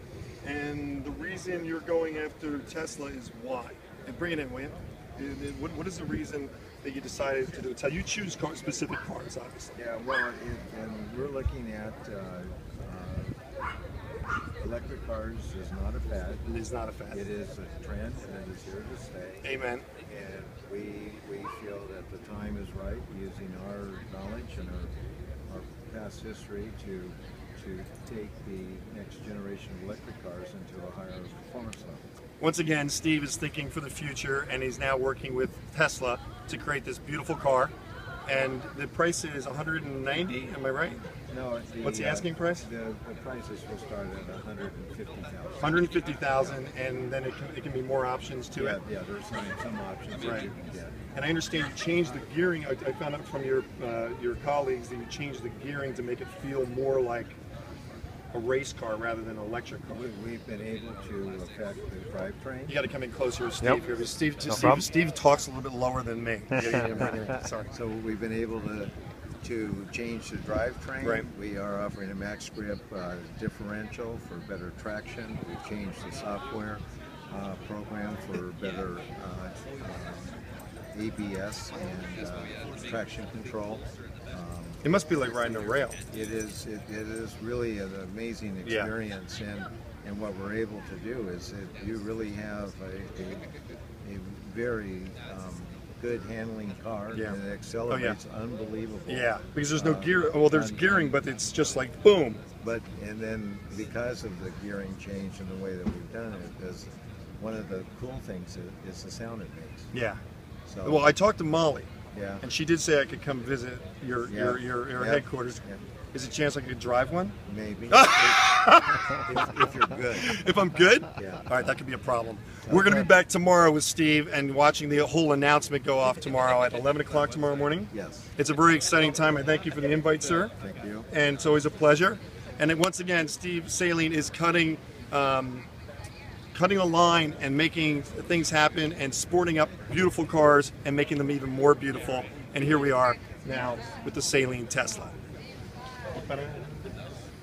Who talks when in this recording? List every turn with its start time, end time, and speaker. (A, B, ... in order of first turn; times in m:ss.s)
0:00.4-0:09.8 A
0:09.7-0:13.4 B
0:14.6-0:16.4 B
0:16.4-0:17.2 A
0:17.1-0:19.5 B
0:19.4-0:19.8 A
0:20.0-0:24.9 B
0:25.5-0:32.0 B
0:32.4-0:37.7 A
0:38.2-0:41.0 A
0:41.3-0:45.9 B
0:41.8-0:42.7 A
0:45.6-0:48.8 A
0:48.6-0:51.0 B
0:50.2-0:50.5 A
0:51.1-0:57.4 A
0:58.3-1:00.0 A
0:59.9-1:02.8 B
1:02.7-1:07.7 A
1:06.6-1:20.4 B
1:11.0-1:11.3 A
1:20.9-1:24.8 B
1:24.8-1:26.0 A
1:26.1-1:41.2 B
1:28.6-1:28.9 A
1:37.9-1:38.2 A
1:39.1-1:42.4 A
1:42.6-1:49.9 B
1:49.9-1:50.2 A
1:50.7-1:51.1 B
1:50.8-1:51.9 A
1:52.1-1:52.4 B
1:52.4-1:55.6 A
1:54.3-1:55.8 B
1:56.1-1:57.4 A
1:57.4-2:00.3 B
1:57.9-1:59.2 A
2:00.2-2:10.5 A
2:01.2-2:01.5 B
2:02.7-2:03.0 B
2:07.9-2:08.3 B
2:10.6-2:11.1 B
2:11.1-2:15.6 A
2:16.5-2:25.1 A
2:26.2-2:26.9 A